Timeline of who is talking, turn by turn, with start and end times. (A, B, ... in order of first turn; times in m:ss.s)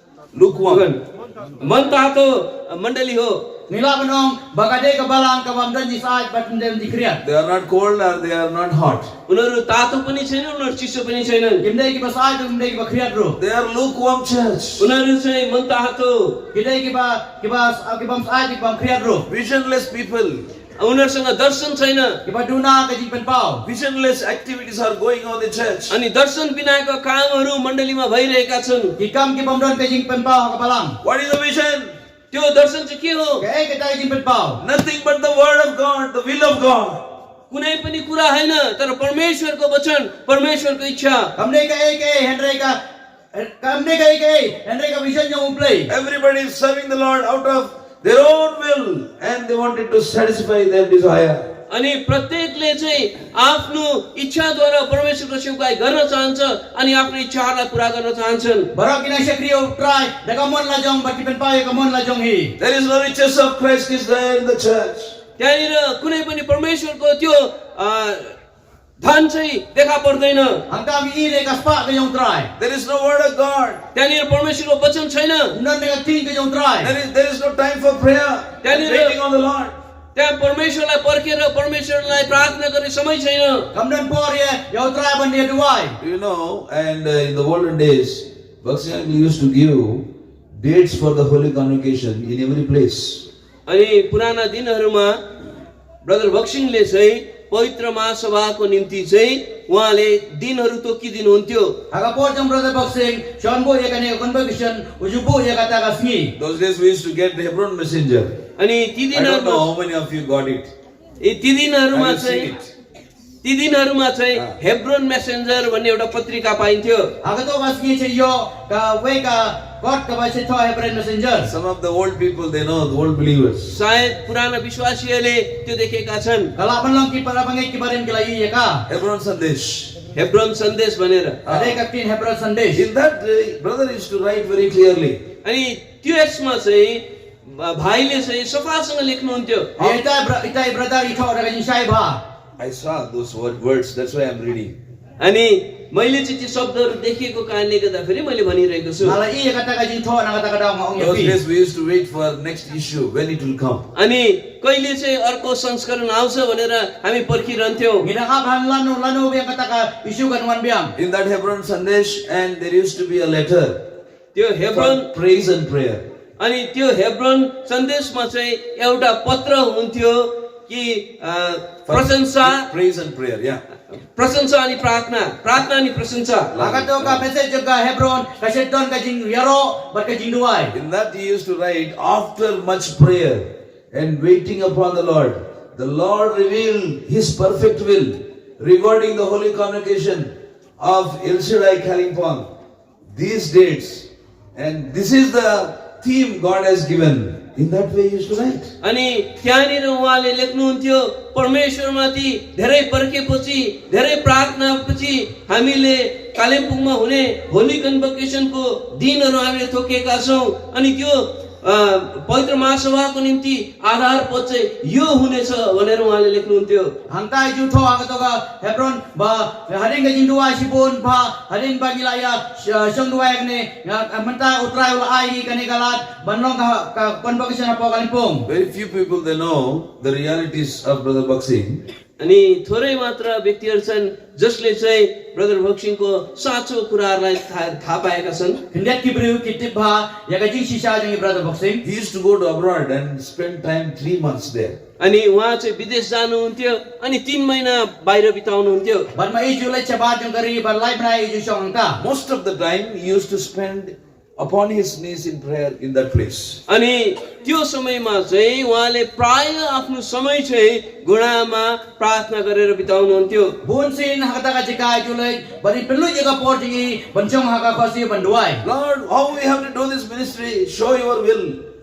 0:00.3-0:00.9 A
0:00.7-0:01.0 B
0:01.6-0:03.4 B
0:03.7-0:07.2 C
0:07.2-0:09.1 A
0:09.3-0:11.7 B
0:11.6-0:13.4 C
0:13.4-0:14.9 A
0:14.8-0:16.4 B
0:16.5-0:19.3 C
0:19.3-0:20.5 A
0:20.8-0:22.2 B
0:22.3-0:23.6 C
0:23.6-0:25.9 A
0:25.9-0:29.0 B
0:29.0-0:31.0 C
0:31.0-0:31.9 A
0:32.3-0:33.4 B
0:33.4-0:34.6 C
0:34.6-0:37.0 A
0:37.5-0:41.3 B
0:41.4-0:42.8 C
0:43.3-0:45.9 C
0:45.9-0:51.5 A
0:51.7-0:58.7 B
0:58.7-1:02.5 C
1:02.6-1:05.2 A
1:05.4-1:08.3 B
1:09.0-1:10.6 B
1:10.7-1:12.5 C
1:12.6-1:13.8 A
1:13.9-1:15.6 B
1:15.5-1:16.9 C
1:16.8-1:19.8 A
1:18.6-1:19.2 B
1:20.2-1:23.7 B
1:23.7-1:26.0 C
1:26.0-1:33.3 A
1:33.7-1:35.2 B
1:36.0-1:41.8 B
1:41.9-1:46.3 C
1:46.4-1:48.4 A
1:48.6-1:49.7 B
1:49.1-1:50.7 A
1:51.2-1:52.5 B
1:51.9-1:52.7 A
1:53.4-1:57.1 B
1:57.2-2:01.5 C
2:01.4-2:03.8 A
2:03.7-2:06.5 B
2:06.6-2:08.8 C
2:08.9-2:10.0 A
2:10.1-2:11.4 B
2:11.5-2:11.8 A
2:11.5-2:12.9 C
2:12.7-2:15.2 A
2:15.4-2:19.7 B
2:19.8-2:20.0 A
2:19.8-2:22.2 C
2:22.6-2:24.8 A
2:25.2-2:29.2 B
2:29.0-2:31.4 C
2:31.0-2:33.9 A
2:34.0-2:38.1 B
2:38.0-2:40.9 C
2:41.0-2:43.8 A
2:44.3-2:45.1 B
2:44.7-2:46.1 A
2:46.4-2:52.7 B
2:51.9-2:53.6 A
2:53.9-2:56.6 B
2:56.5-2:57.2 A
2:56.6-3:00.7 C
3:00.7-3:12.5 A
3:13.1-3:18.7 A
3:18.8-3:36.9 B
3:37.1-3:48.5 C
3:48.5-3:51.8 A
3:52.2-3:58.6 B
3:58.7-4:01.8 C
4:01.8-4:04.8 A
4:05.0-4:09.1 B
4:09.2-4:12.0 C
4:12.0-4:16.6 A
4:16.7-4:23.6 B
4:23.6-4:28.6 C
4:28.6-4:31.6 A